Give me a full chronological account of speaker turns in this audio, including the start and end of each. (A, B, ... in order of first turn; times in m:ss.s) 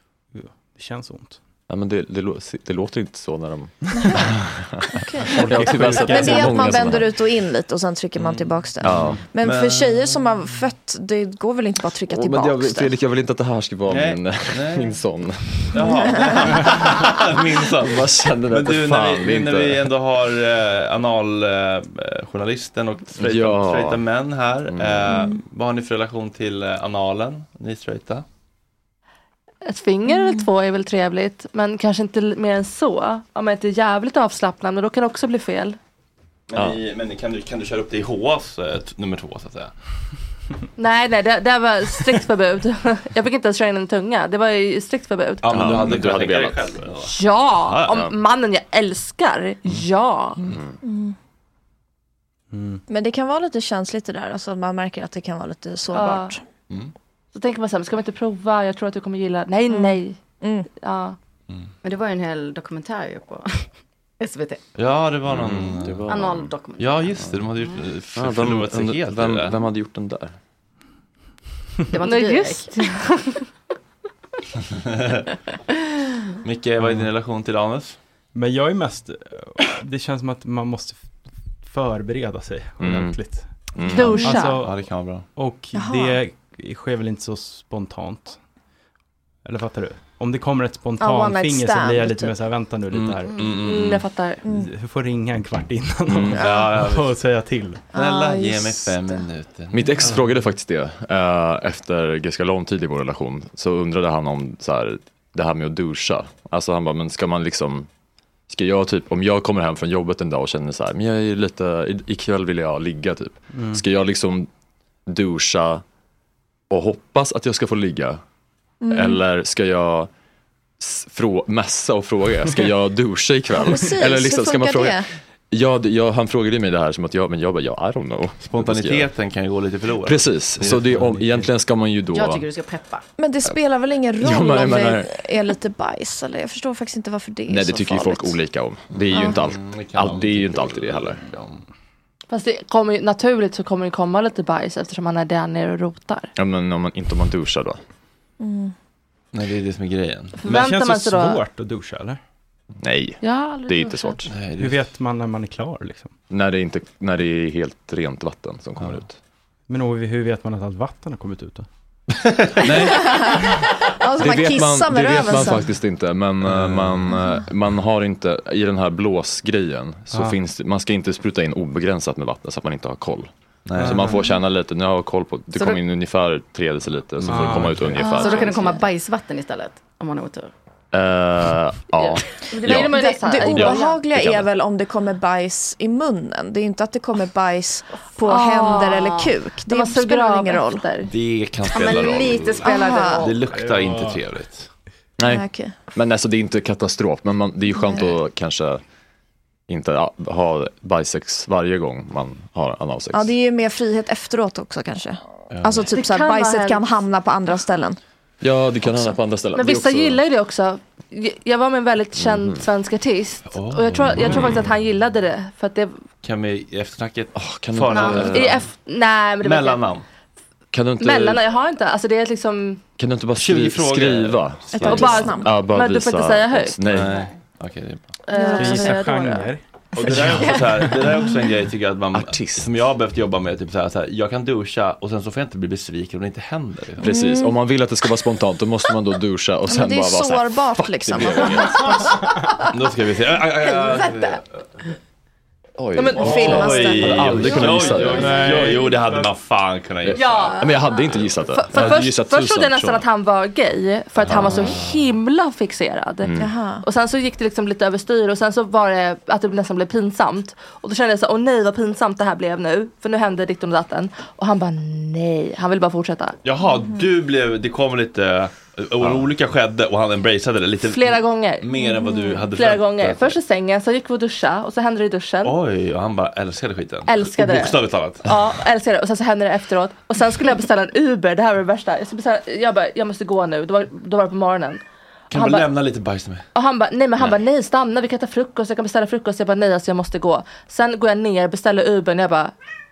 0:00.3-0:01.4 A
0:01.7-0:07.2 B
0:04.0-0:04.3 C
0:04.9-0:12.9 C
0:05.3-0:06.9 A
0:08.8-0:09.2 B
0:08.8-0:10.2 D
0:12.1-0:15.9 B
0:13.9-0:15.0 D
0:15.7-0:28.2 D
0:15.9-0:16.3 E
0:17.8-0:19.9 B
0:23.2-0:24.0 B
0:24.7-0:25.3 B
0:29.6-0:35.8 E
0:36.5-0:39.7 D
0:40.8-0:45.5 E
0:45.4-0:48.0 D
0:45.5-0:46.7 B
0:47.1-0:50.4 E
0:50.8-0:51.2 C
0:52.5-0:52.8 A
0:52.9-0:56.4 C
0:55.9-0:56.4 E
0:57.3-1:00.2 E
0:59.7-1:00.7 C
1:00.8-1:01.2 E
1:01.8-1:03.7 F
1:04.2-1:04.6 F
1:04.8-1:06.1 D
1:05.3-1:06.5 B
1:06.1-1:07.1 F
1:06.8-1:09.6 D
1:08.2-1:10.4 B
1:11.9-1:12.9 F
1:12.0-1:13.4 E
1:16.4-1:18.0 D
1:16.8-1:17.1 A
1:18.3-1:21.1 A
1:21.6-1:23.5 A
1:22.8-1:23.2 B
1:23.7-1:24.4 B
1:23.8-1:24.6 E
1:24.0-1:25.3 D
1:24.2-1:28.4 A
1:25.7-1:26.2 C
1:29.4-1:33.3 A
1:31.0-1:32.4 C
1:32.9-1:34.1 D
1:33.5-1:34.4 E
1:34.4-1:34.7 C
1:34.5-1:37.9 A
1:36.1-1:36.4 B
1:36.4-1:37.2 D
1:36.4-1:36.7 C
1:37.9-1:39.2 C
1:37.9-1:40.2 D
1:39.7-1:47.9 B
1:40.0-1:40.3 A
1:48.5-1:54.5 B
1:53.5-1:53.8 A
1:55.1-1:55.8 B
1:56.7-1:58.2 B
1:58.8-1:59.2 C
1:58.9-2:00.1 B
2:00.8-2:09.1 B
2:03.6-2:05.1 C
2:08.5-2:11.2 D
2:10.0-2:12.4 B
2:12.1-2:13.0 F
2:13.2-2:18.4 C
2:14.2-2:15.2 B
2:17.5-2:21.2 B
2:19.1-2:19.4 C
2:19.2-2:21.6 D
2:22.3-2:26.3 E
2:26.4-2:27.8 B
2:28.4-2:28.7 C
2:29.3-2:30.5 D
2:30.4-2:31.4 E
2:30.5-2:32.2 A
2:32.8-2:34.3 B
2:33.2-2:34.2 E
2:34.3-2:34.9 D
2:34.6-2:36.1 A
2:36.3-2:39.2 B
2:39.7-2:41.7 A
2:42.6-2:43.4 B
2:42.9-2:43.4 C
2:44.0-2:45.7 C
2:44.2-2:58.7 B
2:46.4-2:47.1 D
2:53.7-2:54.2 D
2:53.8-2:54.2 A
2:55.5-2:55.8 F
2:57.2-2:58.1 A
2:58.0-2:58.6 E
2:58.0-3:00.5 F
3:00.9-3:04.5 B
3:02.0-3:04.0 E
3:02.5-3:03.9 F
3:02.7-3:10.9 C
3:08.2-3:11.1 E
3:11.1-3:14.7 D
3:11.6-3:13.5 F
3:12.6-3:13.3 C
3:13.5-3:14.2 A
3:15.2-3:18.8 B
3:15.2-3:15.8 C
3:17.8-3:18.0 C
3:19.7-3:23.3 B
3:23.1-3:28.0 C
3:25.5-3:25.8 D
3:25.9-3:26.9 E
3:28.4-3:30.2 B
3:29.5-3:36.0 E
3:32.2-3:32.6 B
3:33.5-3:34.7 D
3:34.1-3:34.6 B
3:36.2-3:38.7 D
3:37.4-3:38.6 B
3:37.9-3:38.3 F
3:38.3-3:39.9 E
3:39.4-3:40.0 D
3:40.7-3:41.4 B
3:41.0-3:42.8 E
3:43.0-3:47.2 B
3:43.4-3:45.4 D
3:44.8-3:46.8 E
3:45.1-3:45.5 C
3:46.9-3:48.2 D
3:48.3-3:49.5 E
3:48.3-3:49.3 C
3:48.6-3:51.0 A
3:50.0-3:57.0 D
3:50.0-3:50.8 F
3:52.1-3:52.7 B
3:57.0-3:57.6 C
3:57.0-4:02.0 B
3:59.7-4:02.1 C
4:02.1-4:04.4 F
4:02.7-4:04.4 D
4:05.8-4:08.6 B
4:06.0-4:06.9 E
4:06.2-4:07.6 C
4:06.2-4:10.6 D
4:07.9-4:09.3 A
4:10.1-4:13.1 B
4:10.1-4:11.0 E
4:11.1-4:12.0 D
4:11.5-4:26.4 E
4:14.2-4:14.8 D
4:16.2-4:16.5 B
4:16.4-4:16.8 C
4:26.4-4:33.4 D
4:29.0-4:29.3 B
4:30.8-4:35.6 E
4:35.4-4:38.4 D
4:37.1-4:45.7 E
4:45.3-4:46.5 D
4:46.6-4:52.6 E